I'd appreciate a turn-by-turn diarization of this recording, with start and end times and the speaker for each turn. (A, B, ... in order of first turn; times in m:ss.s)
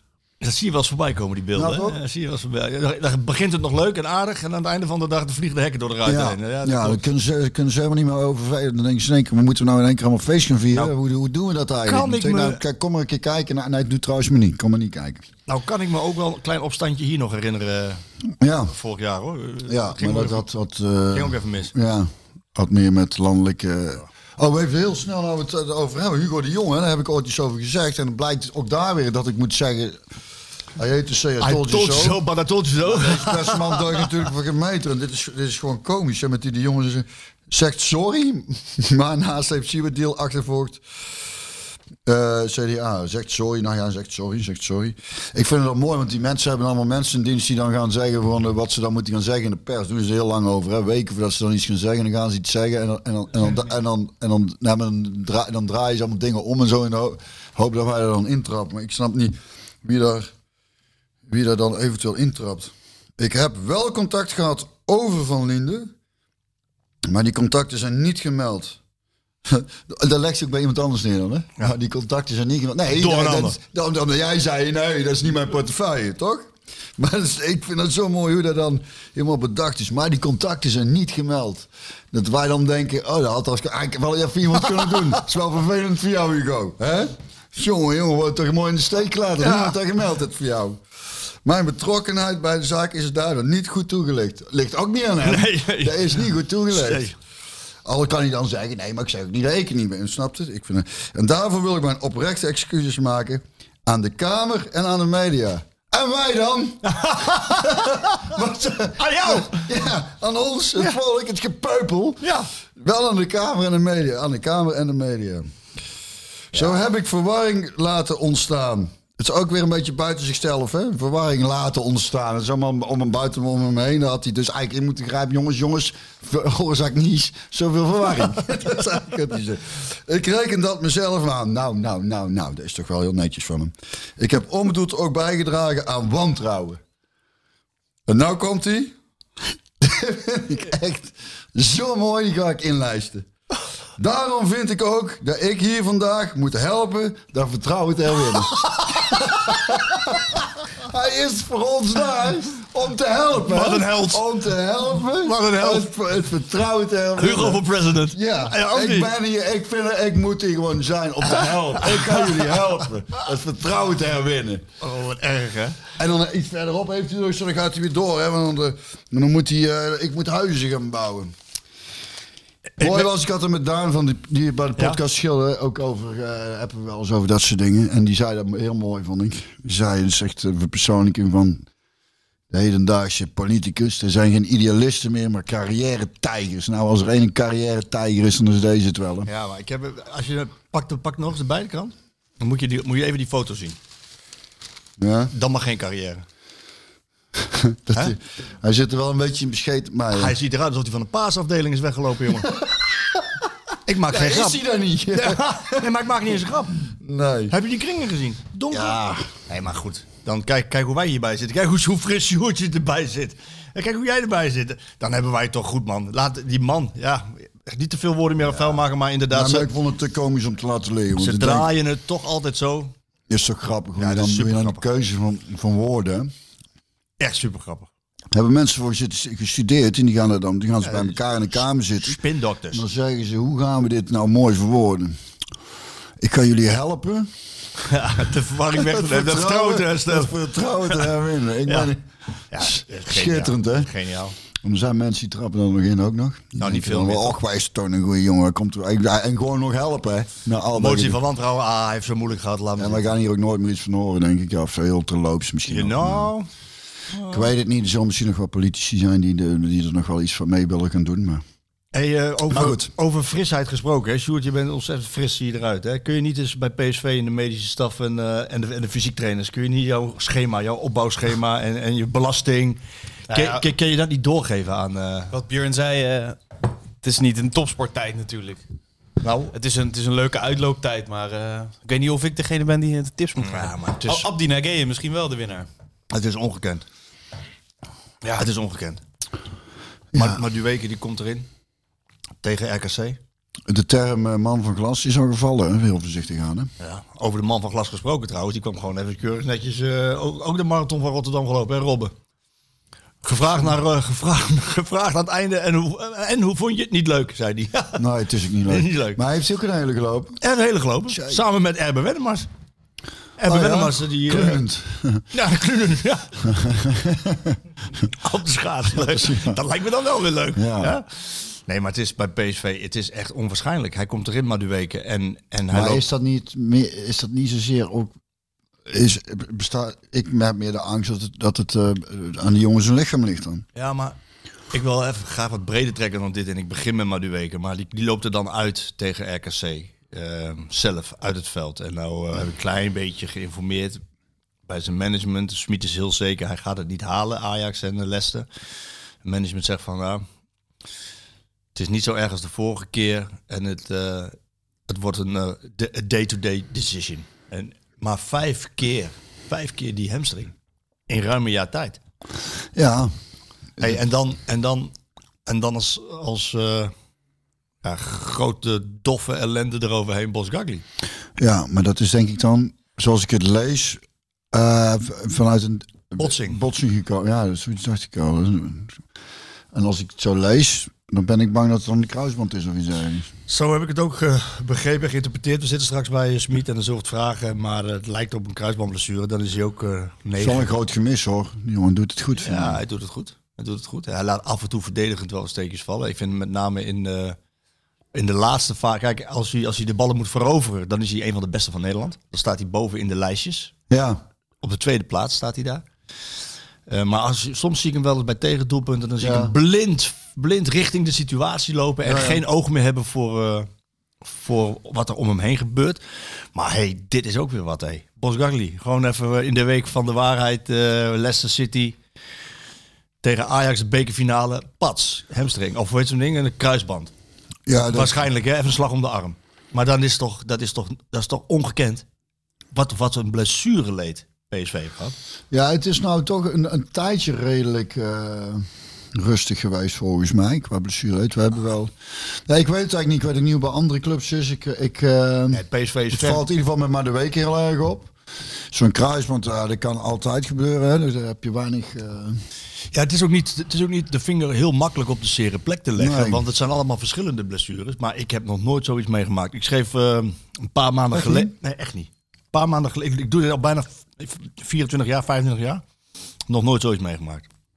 0:00.4-0:07.0 A
0:01.6-0:02.0 B
0:06.0-0:15.2 B
0:11.8-0:12.6 A
0:15.5-0:18.0 A
0:18.4-0:18.8 B
0:18.7-0:20.4 A
0:19.7-0:30.0 B
0:21.1-0:21.7 A
0:30.8-0:32.2 B
0:31.4-0:34.1 A
0:32.8-0:40.8 B
0:42.0-1:00.3 B
1:01.3-1:05.9 B
1:07.1-1:08.8 B
1:09.5-1:30.8 B
1:12.9-1:13.6 A
1:29.4-1:29.8 A
1:31.4-1:37.1 B
1:35.2-1:37.2 A
1:37.8-1:55.5 B
1:46.8-1:48.2 A
1:49.0-1:49.7 A
1:52.2-1:52.5 A
1:56.5-2:16.8 B
2:18.1-2:19.0 B
2:19.8-2:23.3 B
2:24.0-2:44.6 B
2:33.5-2:34.2 A
2:35.1-2:35.9 A
2:37.2-2:39.1 A
2:41.4-2:42.6 A
2:44.8-2:45.8 A
2:46.0-2:51.3 B
2:52.8-2:53.1 A
2:52.8-3:01.6 B
3:02.5-3:09.3 B
3:09.2-3:13.8 A
3:15.0-3:15.3 B
3:15.3-3:16.2 A
3:17.4-3:20.4 B
3:20.1-3:22.6 A
3:22.5-3:23.2 B
3:23.9-3:24.6 A
3:24.1-3:25.9 B
3:25.1-3:26.9 A
3:26.9-3:27.6 B
3:27.5-3:39.7 A
3:28.7-3:29.3 B
3:39.3-3:41.7 B
3:41.2-3:42.9 A
3:43.3-3:46.3 B
3:44.0-3:44.8 A
3:47.2-3:47.9 A
3:48.3-3:52.2 B
3:50.8-3:51.2 A
3:52.0-3:52.8 A
3:52.7-3:55.2 B
3:56.2-3:57.3 B
3:57.8-4:01.1 A
3:58.8-4:02.0 B
4:01.7-4:01.9 A
4:02.5-4:04.4 A
4:02.6-4:03.9 B
4:04.6-4:11.2 B
4:06.6-4:07.4 A
4:10.7-4:13.1 A
4:12.8-4:16.3 B
4:15.7-4:16.5 A
4:17.1-4:17.5 A
4:17.3-4:21.4 B
4:21.9-4:32.8 A
4:22.5-4:22.9 B
4:33.3-4:33.6 C
4:33.3-4:35.3 A
4:35.3-4:36.4 C
4:37.0-4:38.6 C
4:39.2-4:39.5 A
4:39.5-4:45.7 C
4:43.4-4:44.3 A
4:46.1-4:46.8 A
4:48.3-4:49.0 A
4:50.1-4:50.4 B
4:50.1-4:51.5 A
4:52.4-4:53.2 A
4:53.7-4:56.7 B
4:56.8-5:02.1 A
5:03.2-5:08.0 A
5:08.0-5:10.4 B
5:08.7-5:09.2 A
5:10.4-5:12.5 A
5:11.1-5:11.4 B
5:13.4-5:14.6 A
5:13.4-5:15.2 B
5:15.3-5:16.5 A
5:16.4-5:17.6 B
5:18.0-5:26.0 A
5:19.0-5:19.6 B
5:20.6-5:21.0 B
5:25.7-5:28.1 B
5:28.9-5:33.6 B
5:33.8-5:34.2 A
5:34.7-5:44.0 A
5:44.7-5:48.5 A
5:49.2-5:50.2 A
5:51.8-5:54.4 A
5:54.9-6:00.5 A
6:01.1-6:02.0 A
6:02.8-6:03.1 B
6:03.8-6:04.9 A
6:05.5-6:06.9 A
6:07.8-6:10.8 A
6:11.4-6:14.0 B
6:14.5-6:19.0 B
6:16.2-6:16.6 A
6:19.7-6:23.3 B
6:23.5-6:30.7 A
6:30.4-6:32.8 B
6:32.4-6:37.4 A
6:38.1-6:43.7 A
6:43.9-6:44.2 B
6:44.6-6:45.8 A
6:46.9-6:53.7 A
6:49.2-6:49.5 B
6:52.0-6:52.4 B
6:54.2-7:02.0 A
7:03.2-7:07.1 A
7:07.7-7:08.2 B
7:07.9-7:12.0 A
7:12.7-7:15.2 A
7:15.5-7:21.9 B
7:22.5-7:28.1 B
7:25.5-7:26.4 A
7:28.7-7:32.4 B
7:32.9-7:45.8 A
7:36.0-7:36.4 B
7:41.1-7:41.5 B
7:46.5-7:47.5 A